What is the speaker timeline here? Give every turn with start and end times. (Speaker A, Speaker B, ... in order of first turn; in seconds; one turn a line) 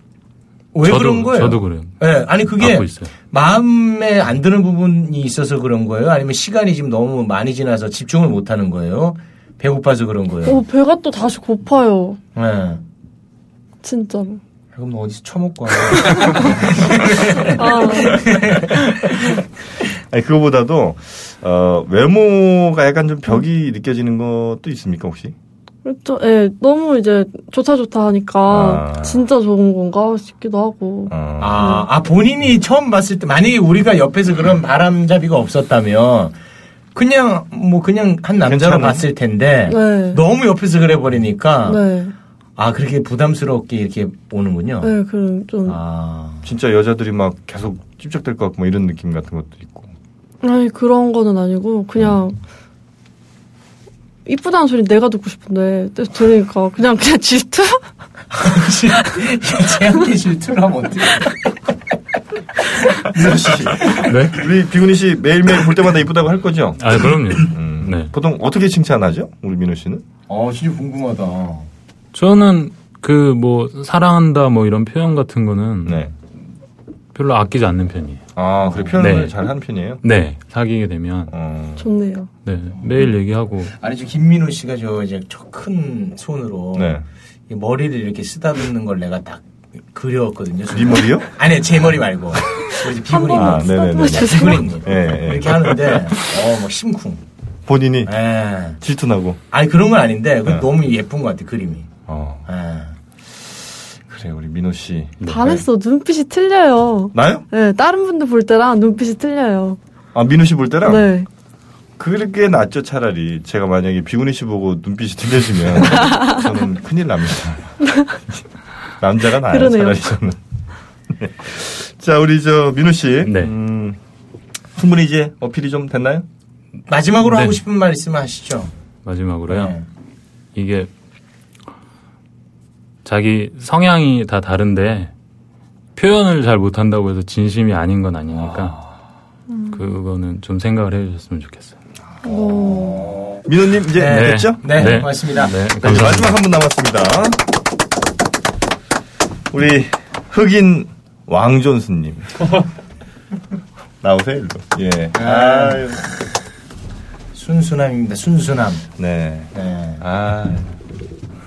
Speaker A: 0.7-10.6
Speaker B: 0.8-2.0
Speaker B: 2.6-3.1
Speaker C: 10.4-12.2
Speaker A: 12.3-12.8
Speaker C: 13.8-14.4
Speaker A: 14.7-19.0
Speaker C: 17.5-18.3
Speaker D: 20.1-25.4
Speaker C: 25.9-31.9
Speaker D: 28.4-29.2
Speaker D: 31.1-31.8
Speaker A: 31.4-36.4
Speaker A: 36.9-41.8
Speaker D: 38.4-39.1
Speaker C: 39.7-40.2
Speaker C: 41.6-42.1
Speaker A: 42.6-44.9
Speaker C: 44.8-45.8
Speaker A: 45.6-46.5
Speaker D: 46.4-49.9
Speaker C: 50.4-52.4
Speaker C: 54.2-57.8
Speaker A: 58.3-61.4
Speaker A: 63.0-64.1
Speaker D: 63.1-70.0
Speaker B: 64.1-64.4
Speaker B: 66.8-68.1
Speaker A: 70.3-71.7
Speaker B: 72.1-76.1
Speaker D: 75.8-76.1
Speaker B: 77.1-78.3
Speaker D: 78.3-80.0
Speaker A: 78.7-78.9
Speaker B: 79.0-79.4
Speaker B: 80.0-81.3
Speaker D: 81.3-81.8
Speaker C: 81.8-82.3
Speaker B: 82.4-83.7
Speaker A: 83.8-87.0
Speaker D: 86.7-87.0
Speaker A: 87.5-97.2
Speaker D: 90.7-91.3
Speaker C: 93.1-94.7
Speaker D: 93.3-96.1
Speaker D: 97.7-98.1
Speaker A: 98.0-98.8
Speaker D: 98.8-99.4
Speaker A: 99.5-101.9
Speaker D: 102.1-102.4
Speaker A: 102.5-103.0
Speaker D: 104.1-105.6
Speaker B: 105.2-105.5
Speaker C: 105.2-109.8
Speaker D: 107.1-107.5
Speaker D: 110.1-111.1
Speaker C: 110.8-111.3
Speaker D: 112.0-117.8
Speaker C: 117.9-118.1
Speaker D: 119.0-120.4
Speaker C: 119.5-120.1
Speaker D: 121.1-124.0
Speaker B: 123.2-123.5
Speaker D: 124.8-126.2
Speaker A: 126.9-128.7
Speaker B: 127.2-127.6
Speaker B: 129.0-129.7
Speaker A: 129.5-129.8
Speaker B: 130.5-130.9
Speaker B: 133.0-135.1
Speaker B: 135.9-138.8
Speaker C: 139.5-139.8
Speaker B: 139.7-141.8
Speaker C: 142.2-143.1
Speaker A: 142.3-143.4
Speaker D: 143.5-145.0
Speaker A: 144.0-145.5
Speaker B: 144.1-146.4
Speaker D: 145.8-147.4
Speaker D: 149.5-152.5
Speaker D: 154.0-156.0
Speaker A: 155.2-155.8
Speaker A: 157.3-158.9
Speaker D: 159.0-160.7
Speaker A: 159.5-160.0